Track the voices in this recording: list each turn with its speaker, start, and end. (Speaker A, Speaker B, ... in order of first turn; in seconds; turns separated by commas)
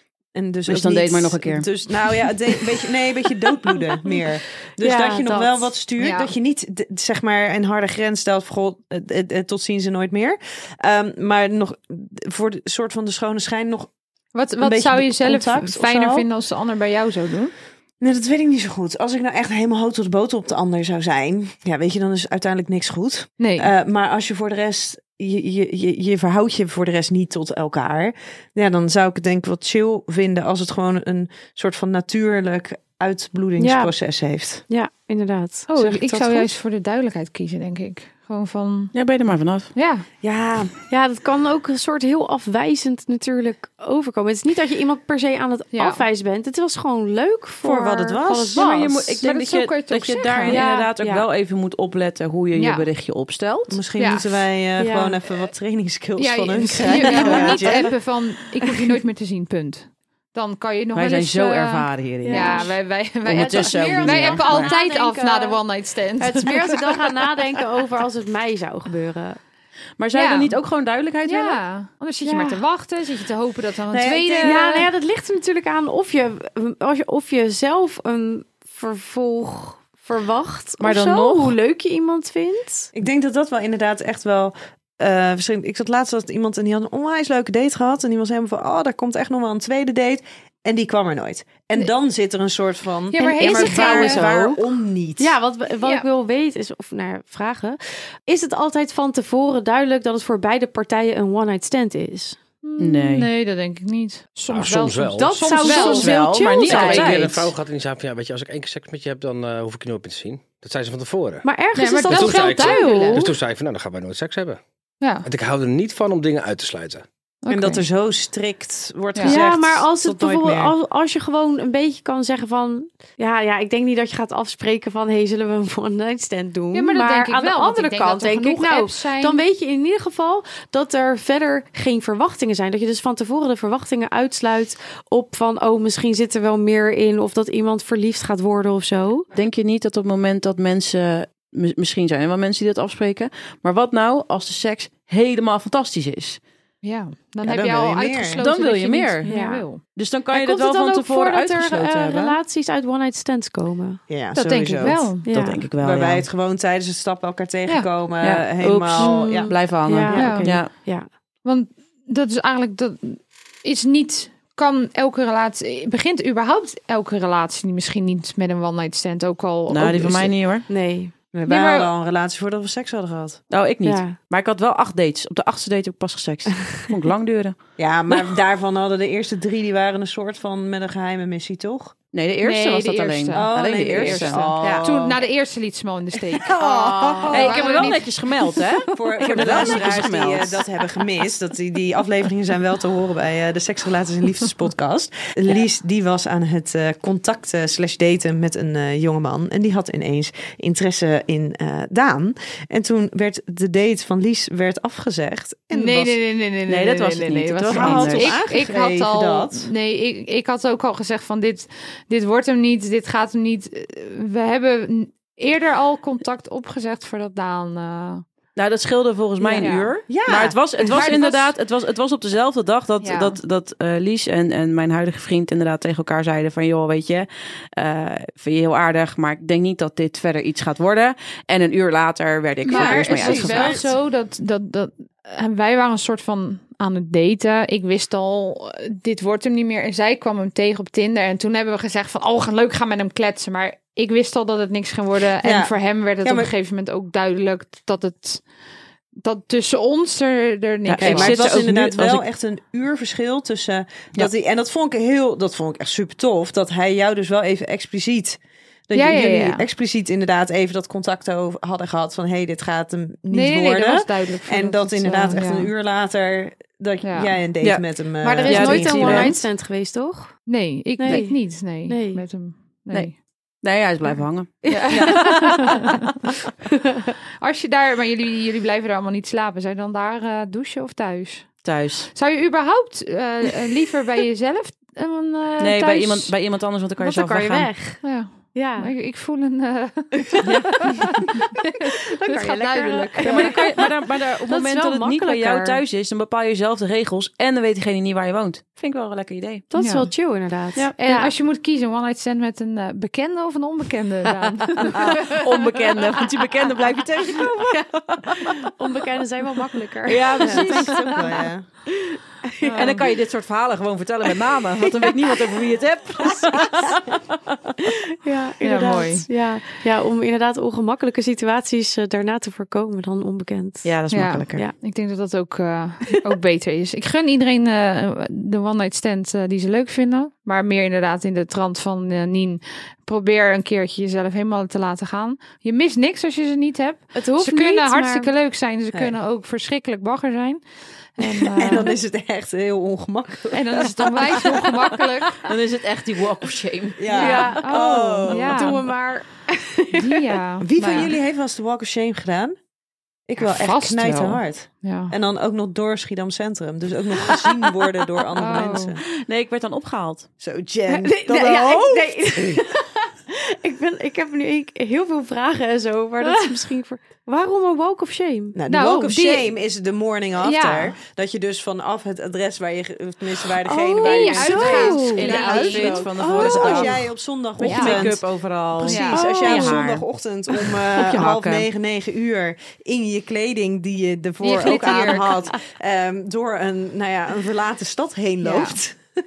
Speaker A: 0.3-13.9, Speaker B: 0.7-1.7, Speaker C: 4.8-5.7, Speaker D: 6.0-6.3, Speaker D: 14.3-17.5, Speaker A: 14.6-16.2, Speaker A: 18.0-34.6, Speaker D: 23.4-23.7, Speaker C: 33.6-33.9, Speaker C: 34.7-36.5, Speaker D: 35.7-38.9, Speaker B: 38.9-39.7, Speaker D: 39.7-40.0, Speaker A: 40.2-40.7, Speaker C: 40.9-49.0, Speaker D: 45.7-46.0, Speaker A: 47.6-48.9, Speaker B: 48.5-53.8, Speaker D: 49.2-50.6, Speaker C: 50.5-51.2, Speaker D: 52.5-52.9, Speaker A: 53.7-57.9, Speaker D: 54.0-54.3, Speaker C: 54.8-55.2, Speaker D: 56.2-67.2, Speaker C: 56.9-57.9, Speaker B: 60.9-64.7, Speaker C: 62.2-62.8, Speaker C: 63.3-65.6, Speaker C: 66.2-69.4, Speaker B: 70.0-71.6, Speaker D: 70.1-70.6, Speaker D: 71.2-74.9, Speaker C: 72.2-72.6, Speaker A: 73.9-74.6, Speaker C: 74.4-82.9, Speaker B: 80.8-81.5, Speaker A: 82.9-95.3, Speaker D: 93.1-94.3, Speaker C: 93.2-94.6, Speaker C: 95.2-102.4, Speaker D: 102.6-106.2, Speaker B: 102.8-103.3, Speaker E: 104.5-111.5, Speaker C: 105.2-107.4, Speaker B: 105.6-107.5, Speaker D: 106.8-107.2, Speaker C: 111.4-113.3, Speaker D: 111.7-113.3, Speaker E: 112.0-114.6, Speaker E: 115.2-117.0, Speaker D: 117.4-117.8, Speaker A: 117.5-120.7, Speaker D: 119.1-119.4, Speaker C: 119.2-139.3, Speaker D: 126.7-129.4, Speaker B: 139.3-146.4, Speaker D: 146.8-149.8, Speaker A: 147.4-148.4, Speaker B: 148.4-152.4, Speaker C: 149.3-149.6, Speaker C: 150.3-154.0, Speaker A: 154.1-160.3, Speaker D: 154.3-155.2, Speaker C: 154.8-155.7, Speaker B: 155.2-156.2, Speaker B: 158.2-160.7, Speaker C: 159.0-161.1, Speaker D: 160.1-160.7, Speaker D: 161.4-170.3, Speaker B: 169.7-170.7, Speaker C: 170.7-171.1, Speaker A: 171.3-173.4, Speaker D: 171.4-171.9, Speaker B: 173.5-177.6, Speaker C: 173.8-174.2, Speaker A: 177.8-181.9, Speaker B: 182.1-184.9, Speaker D: 182.4-186.6, Speaker A: 183.3-185.2, Speaker A: 186.3-187.9, Speaker C: 186.6-187.6, Speaker D: 187.2-188.1, Speaker B: 187.3-190.6, Speaker A: 188.9-206.1, Speaker D: 205.7-218.2, Speaker B: 206.7-208.4, Speaker A: 207.7-209.7, Speaker B: 218.6-233.8, Speaker D: 219.6-219.9, Speaker A: 220.1-220.6, Speaker D: 220.9-221.5, Speaker D: 223.0-223.4, Speaker D: 232.6-248.4, Speaker A: 232.7-233.9, Speaker A: 245.4-246.5, Speaker D: 249.2-251.6, Speaker B: 250.9-252.2, Speaker A: 251.0-269.3, Speaker D: 258.9-259.6, Speaker D: 263.3-265.7, Speaker D: 267.0-267.3, Speaker C: 268.2-270.4, Speaker B: 268.4-269.4, Speaker D: 270.5-273.1, Speaker C: 271.0-272.2, Speaker B: 273.6-275.8, Speaker D: 274.6-276.1, Speaker C: 274.8-275.8, Speaker D: 277.4-286.3, Speaker B: 281.6-282.1, Speaker B: 285.6-287.7, Speaker C: 287.0-288.9, Speaker D: 288.0-293.6, Speaker B: 290.4-291.2, Speaker C: 291.3-295.8, Speaker B: 293.2-299.7, Speaker C: 299.7-301.3, Speaker D: 299.8-300.1, Speaker D: 300.9-305.2, Speaker B: 304.7-308.6, Speaker C: 307.4-311.4, Speaker B: 310.0-311.4, Speaker A: 310.4-311.7, Speaker C: 311.9-313.1, Speaker D: 312.6-313.1, Speaker B: 312.7-317.0, Speaker C: 314.9-315.6, Speaker C: 316.2-317.2, Speaker C: 317.8-323.9, Speaker D: 318.6-319.3, Speaker B: 323.8-324.6, Speaker D: 324.1-340.6, Speaker C: 337.1-338.3, Speaker D: 341.1-341.9, Speaker A: 341.6-344.6, Speaker D: 343.5-345.4, Speaker C: 343.8-344.7, Speaker B: 345.4-347.5, Speaker A: 347.0-348.8, Speaker D: 347.1-348.9, Speaker C: 347.1-350.2, Speaker D: 349.9-351.1, Speaker A: 350.6-352.6, Speaker A: 353.3-359.0, Speaker D: 353.4-355.1, Speaker D: 358.4-359.0, Speaker B: 359.0-360.3, Speaker A: 360.4-362.6, Speaker C: 360.9-368.6, Speaker A: 368.5-389.0, Speaker D: 368.7-369.5, Speaker D: 370.4-371.0, Speaker C: 373.6-375.5, Speaker D: 374.0-376.1, Speaker B: 374.7-380.0, Speaker C: 376.2-376.9, Speaker D: 377.6-378.1, Speaker D: 378.8-379.2, Speaker C: 379.1-379.8, Speaker B: 380.7-381.7, Speaker D: 384.4-385.3, Speaker C: 384.8-385.2, Speaker D: 388.4-388.8